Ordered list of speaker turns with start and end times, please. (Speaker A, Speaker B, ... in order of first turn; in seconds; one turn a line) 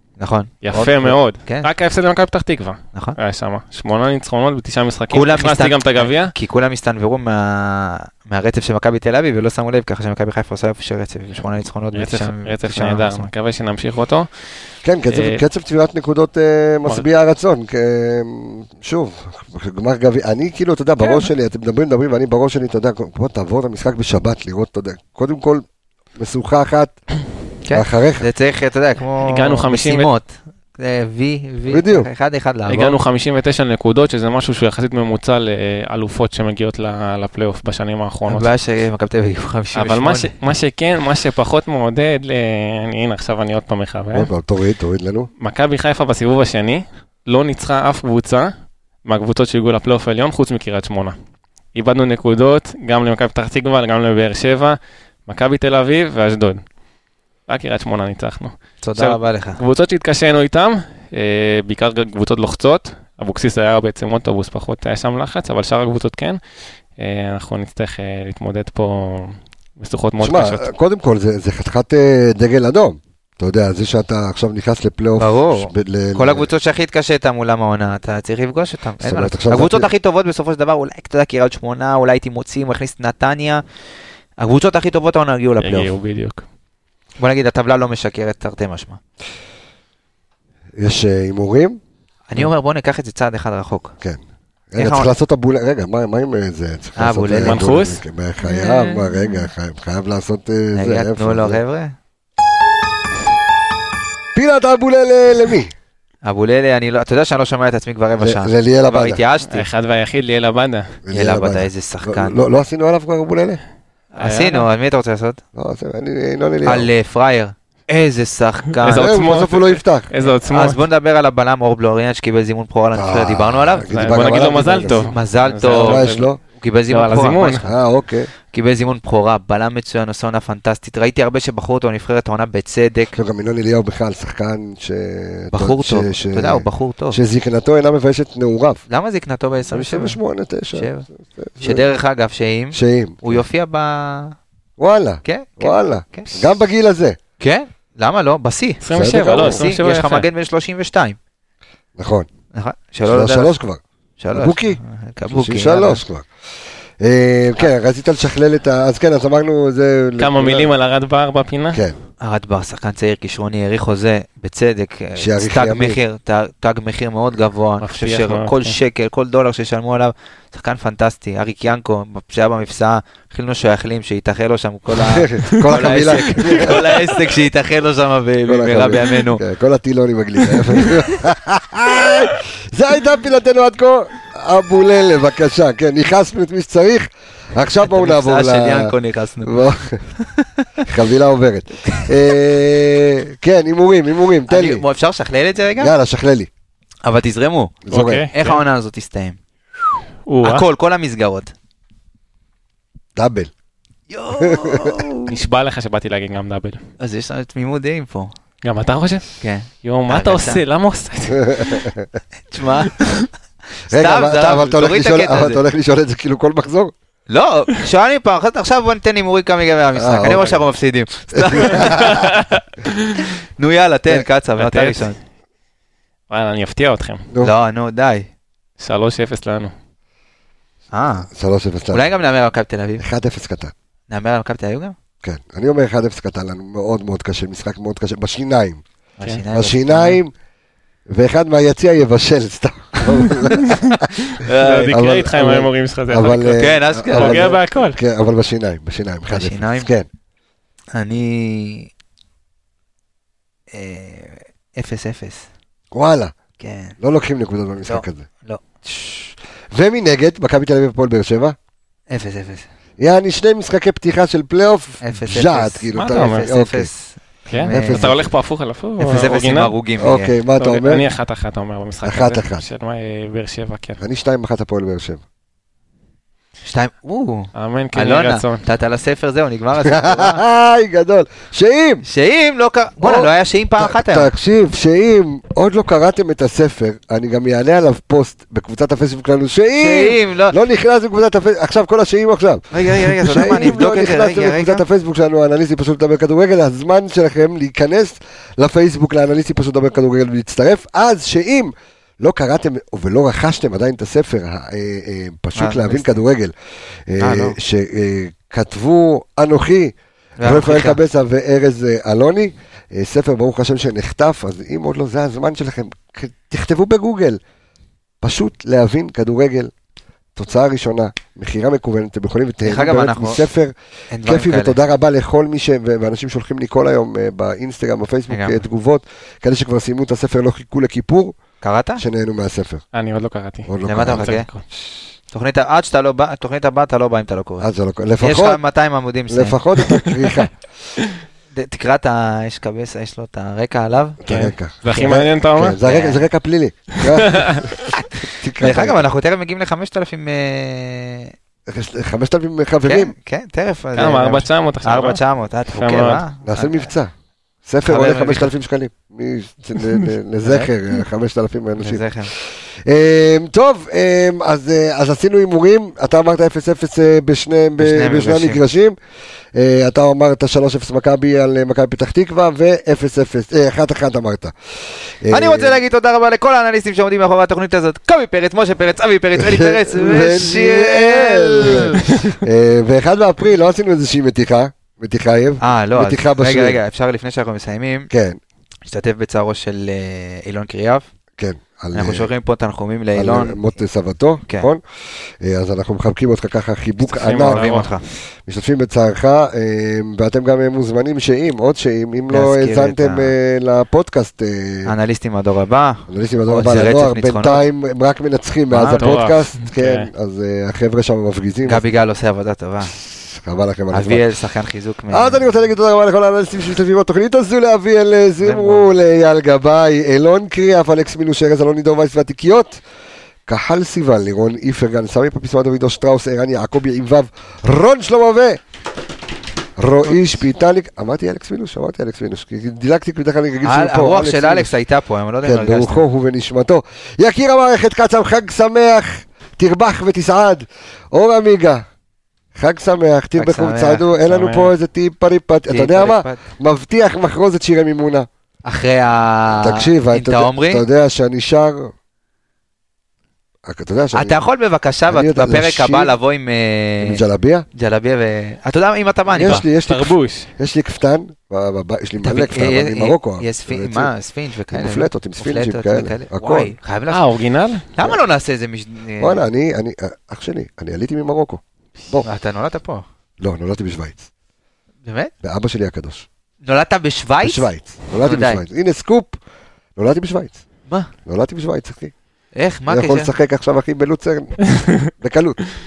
Speaker A: 0.2-1.7
Speaker B: 0.6-6.3
Speaker A: 5.1-13.3
Speaker B: 11.9-14.3
Speaker C: 14.8-25.6
Speaker B: 15.1-15.4
Speaker A: 21.0-21.3
Speaker C: 26.1-26.9
Speaker A: 27.6-33.0
Speaker C: 27.7-28.2
Speaker B: 29.2-30.1
Speaker C: 31.7-32.1
Speaker B: 32.7-38.5
Speaker A: 38.3-40.3
Speaker B: 39.7-44.3
Speaker C: 44.1-45.3
Speaker B: 45.4-48.5
Speaker B: 49.0-51.1
Speaker B: 51.7-56.6
Speaker B: 57.5-66.4
Speaker A: 58.8-59.6
Speaker B: 67.0-70.7
Speaker C: 70.2-76.5
Speaker A: 75.2-83.6
Speaker C: 79.0-79.9
Speaker A: 84.4-85.9
Speaker B: 85.6-86.4
Speaker A: 87.2-89.0
Speaker C: 90.8-91.8
Speaker A: 92.3-94.0
Speaker C: 94.0-101.6
Speaker A: 94.8-95.1
Speaker A: 97.0-97.7
Speaker B: 97.4-99.4
Speaker A: 100.7-102.0
Speaker C: 104.3-105.7
Speaker A: 106.2-109.7
Speaker C: 108.2-109.2
Speaker B: 109.5-110.9
Speaker C: 111.0-113.6
Speaker A: 111.1-112.4
Speaker A: 114.1-115.4
Speaker B: 114.2-114.7
Speaker C: 115.5-116.9
Speaker A: 116.6-119.2
Speaker B: 118.8-120.8
Speaker C: 118.8-120.1
Speaker A: 120.2-127.7
Speaker C: 122.9-125.1
Speaker B: 123.9-126.3
Speaker C: 125.7-126.4
Speaker B: 126.9-127.6
Speaker C: 127.6-128.3
Speaker A: 128.5-133.2
Speaker C: 133.1-138.8
Speaker A: 135.5-137.2
Speaker A: 138.9-140.2
Speaker C: 139.7-141.8
Speaker A: 140.7-141.1
Speaker A: 141.6-144.4
Speaker C: 142.7-143.4
Speaker C: 144.8-147.2
Speaker A: 145.2-146.4
Speaker A: 147.4-151.2
Speaker B: 148.8-150.3
Speaker C: 148.9-149.6
Speaker C: 151.9-152.3
Speaker A: 152.5-153.5
Speaker C: 153.1-153.8
Speaker A: 154.2-156.0
Speaker C: 154.3-156.2
Speaker C: 157.0-160.7
Speaker B: 160.2-161.8
Speaker A: 162.2-179.4
Speaker C: 165.2-166.0
Speaker B: 167.8-168.8
Speaker C: 175.1-176.9
Speaker B: 175.4-177.0
Speaker C: 178.4-190.0
Speaker A: 187.8-190.9
Speaker C: 190.8-194.8
Speaker A: 194.5-195.9
Speaker C: 195.8-196.5
Speaker A: 197.0-197.8
Speaker C: 197.9-198.3
Speaker B: 197.9-198.6
Speaker A: 198.3-199.4
Speaker B: 200.2-200.6
Speaker A: 200.4-201.5
Speaker C: 203.2-203.5
Speaker A: 204.1-205.4
Speaker C: 204.4-205.1
Speaker B: 205.3-206.8
Speaker A: 207.0-208.3
Speaker B: 208.6-209.3
Speaker A: 209.4-210.6
Speaker B: 209.8-211.7
Speaker C: 211.3-212.1
Speaker A: 212.5-213.3
Speaker A: 213.9-215.6
Speaker C: 213.9-216.9
Speaker A: 217.3-222.4
Speaker C: 220.0-220.6
Speaker C: 221.3-222.2
Speaker B: 221.7-223.2
Speaker A: 223.1-225.2
Speaker B: 224.6-225.1
Speaker B: 226.3-227.3
Speaker A: 227.4-228.3
Speaker B: 228.8-229.7
Speaker A: 230.9-231.3
Speaker C: 231.3-232.1
Speaker A: 231.9-233.0
Speaker C: 233.0-233.7
Speaker A: 234.1-234.9
Speaker C: 235.2-238.8
Speaker A: 239.2-240.2
Speaker C: 239.5-240.3
Speaker C: 241.1-250.1
Speaker B: 243.6-248.0
Speaker A: 244.5-244.9
Speaker A: 246.5-247.6
Speaker A: 249.3-249.9
Speaker A: 250.9-251.9
Speaker A: 253.7-255.5
Speaker C: 255.9-256.3
Speaker A: 256.6-256.9
Speaker C: 257.0-258.3
Speaker A: 257.9-258.6
Speaker C: 258.8-261.6
Speaker A: 262.1-262.7
Speaker C: 263.0-266.9
Speaker A: 265.0-268.2
Speaker B: 265.9-266.4
Speaker B: 267.5-269.7
Speaker C: 267.6-268.3
Speaker A: 269.0-270.3
Speaker C: 270.0-271.1
Speaker B: 270.6-274.0
Speaker C: 272.0-272.6
Speaker C: 274.0-275.2
Speaker A: 276.6-280.4
Speaker B: 277.5-278.6
Speaker C: 279.8-282.0
Speaker A: 282.0-284.3
Speaker C: 283.0-306.5
Speaker A: 289.8-290.6
Speaker A: 292.7-294.8
Speaker A: 305.5-306.1
Speaker C: 307.1-317.4
Speaker A: 307.2-307.6
Speaker A: 310.4-311.0
Speaker C: 318.2-319.7
Speaker C: 320.3-331.4
Speaker A: 322.6-323.4
Speaker A: 324.1-324.8
Speaker A: 328.3-328.6
Speaker A: 331.6-332.0
Speaker C: 332.0-332.8
Speaker B: 332.9-334.5
Speaker C: 333.7-334.4
Speaker A: 333.8-334.5
Speaker A: 335.3-337.7
Speaker C: 337.6-338.6
Speaker A: 338.2-339.6
Speaker C: 339.3-340.5
Speaker A: 341.5-344.2
Speaker C: 344.2-349.1
Speaker B: 344.3-345.8
Speaker A: 345.8-346.2
Speaker B: 347.0-347.8
Speaker A: 348.6-351.3
Speaker C: 351.7-353.1
Speaker A: 352.9-356.9
Speaker B: 353.9-355.2
Speaker B: 355.7-356.2
Speaker C: 356.4-357.1
Speaker C: 357.6-368.9
Speaker A: 357.8-358.5
Speaker A: 360.4-360.7
Speaker A: 361.8-362.3
Speaker A: 367.8-368.6
Speaker C: 369.5-374.5
Speaker C: 375.2-375.8
Speaker A: 375.3-382.4
Speaker C: 379.4-386.8
Speaker A: 385.6-388.1
Speaker C: 388.1-388.4
Speaker A: 388.9-391.1
Speaker C: 391.4-392.3
Speaker A: 391.9-393.7
Speaker C: 393.1-394.8
Speaker C: 395.4-397.8
Speaker B: 397.1-397.9
Speaker A: 397.2-398.0
Speaker C: 398.4-404.9
Speaker A: 402.3-403.3
Speaker A: 404.8-407.6
Speaker C: 406.1-411.8
Speaker A: 408.7-409.2
Speaker B: 408.9-410.1
Speaker A: 411.6-412.9
Speaker C: 412.9-414.3
Speaker A: 413.9-415.4
Speaker C: 415.1-422.8
Speaker A: 418.4-418.9
Speaker C: 423.5-428.6
Speaker C: 429.8-434.7
Speaker A: 433.6-436.1
Speaker C: 435.4-441.8
Speaker C: 442.5-448.3
Speaker A: 443.4-444.1
Speaker B: 444.2-444.7
Speaker A: 445.7-446.4
Speaker A: 448.6-450.8
Speaker C: 449.6-451.9
Speaker C: 453.6-454.4
Speaker A: 454.1-457.2
Speaker C: 455.1-456.1
Speaker C: 457.0-457.6
Speaker A: 457.7-459.6
Speaker C: 459.3-464.1
Speaker B: 459.4-460.5
Speaker A: 462.2-467.2
Speaker C: 464.7-466.7
Speaker B: 467.1-467.9
Speaker A: 467.9-469.4
Speaker C: 469.2-472.3
Speaker A: 472.2-473.1
Speaker C: 473.4-474.3
Speaker A: 475.0-475.3
Speaker C: 475.4-476.2
Speaker A: 476.6-477.7
Speaker C: 477.4-479.4
Speaker A: 478.2-478.6
Speaker C: 479.9-480.6
Speaker C: 481.2-482.1
Speaker A: 482.5-483.3
Speaker C: 482.9-485.6